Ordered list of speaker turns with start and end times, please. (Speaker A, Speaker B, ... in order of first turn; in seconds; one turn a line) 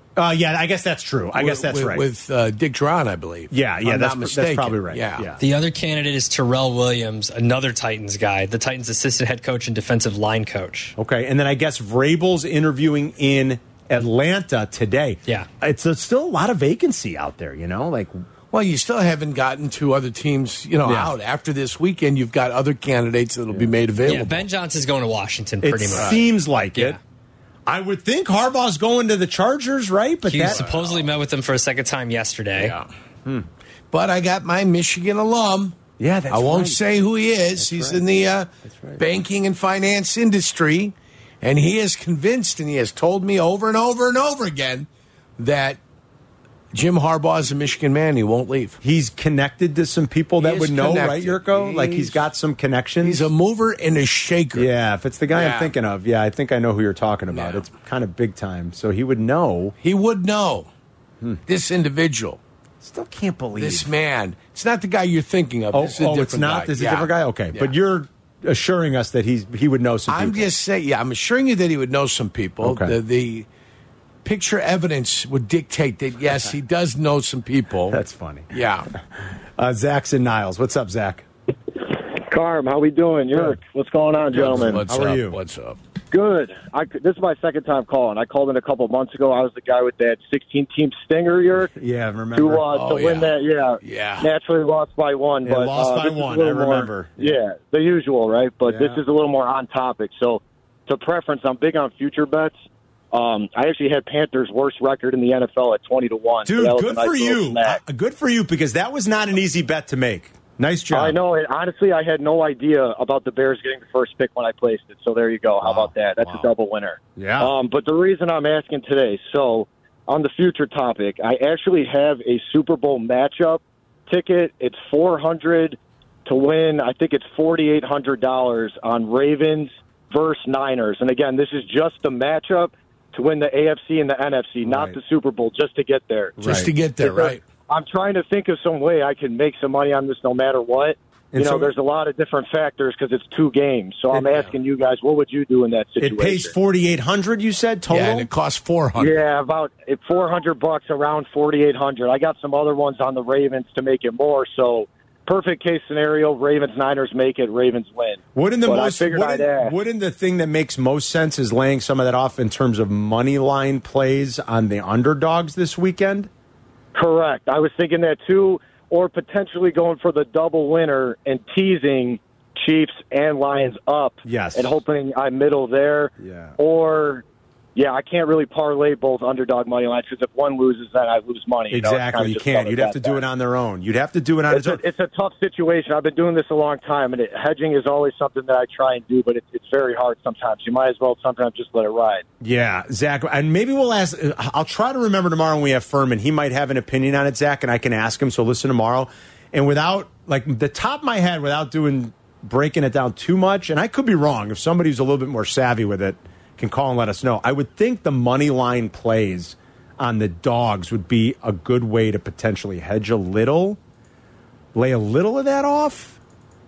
Speaker A: 0.1-2.0
Speaker B: 1.4-5.3
Speaker A: 3.5-5.4
Speaker C: 5.4-10.9
Speaker A: 11.0-18.2
Speaker B: 18.5-24.4
Speaker A: 20.8-21.1
Speaker C: 24.0-26.2
Speaker A: 25.6-27.0
Speaker A: 27.6-31.0
Speaker C: 30.2-32.7
Speaker B: 32.6-32.9
Speaker B: 33.9-35.8
Speaker A: 36.0-36.8
Speaker B: 36.3-45.8
Speaker A: 37.5-38.0
Speaker A: 38.6-39.0
Speaker B: 46.7-48.8
Speaker A: 48.8-53.3
Speaker B: 50.4-52.2
Speaker B: 53.0-54.7
Speaker A: 54.5-59.8
Speaker B: 55.3-55.7
Speaker B: 57.3-57.6
Speaker B: 59.8-60.7
Speaker B: 61.5-62.4
Speaker A: 62.8-63.9
Speaker B: 63.6-67.7
Speaker A: 65.7-70.5
Speaker B: 70.1-73.5
Speaker A: 72.6-73.0
Speaker B: 74.2-78.0
Speaker A: 77.9-78.5
Speaker B: 78.5-78.9
Speaker A: 79.6-81.2
Speaker D: 81.8-84.8
Speaker B: 84.3-85.8
Speaker A: 84.3-85.4
Speaker D: 86.1-91.7
Speaker A: 91.7-92.7
Speaker D: 92.3-102.5
Speaker B: 92.7-94.3
Speaker A: 95.4-97.4
Speaker A: 98.7-99.0
Speaker D: 103.1-107.8
Speaker A: 106.4-111.2
Speaker D: 110.9-146.5
Speaker A: 115.6-116.5
Speaker A: 117.2-117.5
Speaker A: 134.6-135.0
Speaker A: 136.4-136.7
Speaker B: 136.4-137.4
Speaker A: 141.3-141.7
Speaker B: 144.3-144.5
Speaker A: 146.0-148.3
Speaker B: 147.9-149.2
Speaker D: 148.9-159.7
Speaker A: 158.3-166.3
Speaker D: 166.9-177.2
Speaker A: 174.2-174.8
Speaker A: 176.2-176.6
Speaker D: 177.7-183.2
Speaker A: 181.7-184.8
Speaker D: 184.5-192.2
Speaker A: 192.4-213.8
Speaker A: 214.7-216.2